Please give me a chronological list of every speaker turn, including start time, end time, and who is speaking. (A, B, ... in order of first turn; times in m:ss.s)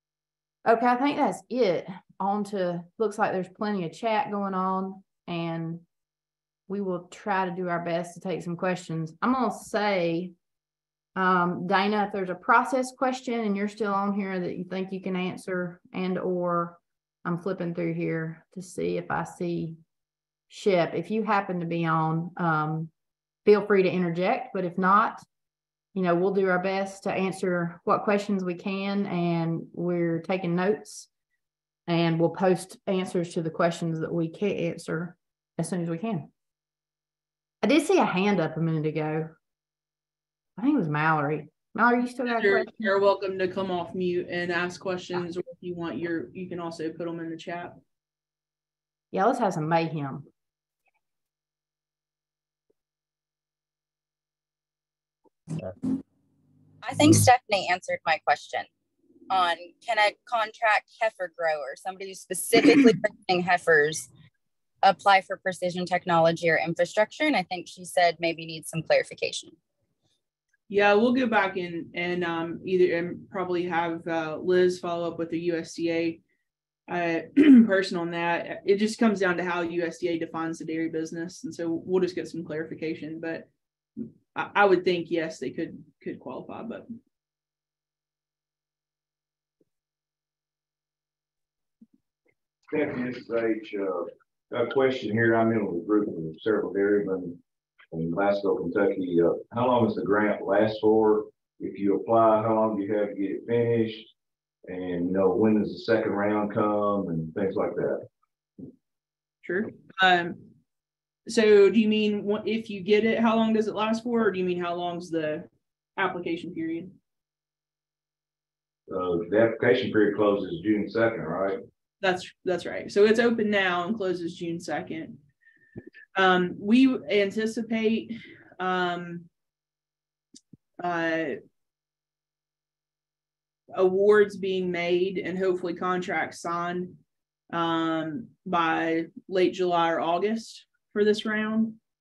0:00.6-0:05.8 A
0:06.7-0:10.3 A
0:11.2-0:19.8 A
0:20.5-0:22.9 A
0:23.4-0:25.2 A
0:25.9-0:31.1 A
0:31.9-0:36.3 A
0:37.6-0:39.3 A
0:40.6-0:42.7 A
0:42.4-0:47.8 B
0:49.1-0:50.3 A
0:56.8-0:58.7 C
0:59.3-1:04.1 C
1:04.8-1:09.5 C
1:10.7-1:16.2 B
1:16.9-1:26.9 B
1:32.7-1:37.4 D
1:37.9-1:44.1 D
1:44.7-1:48.0 D
1:49.4-1:50.4 B
1:51.2-1:57.0 B
1:58.9-2:01.6 D
2:02.0-2:05.2 B
2:06.1-2:09.3 B
2:10.8-2:11.4 B
2:13.7-2:17.0 B
2:17.5-2:21.8 B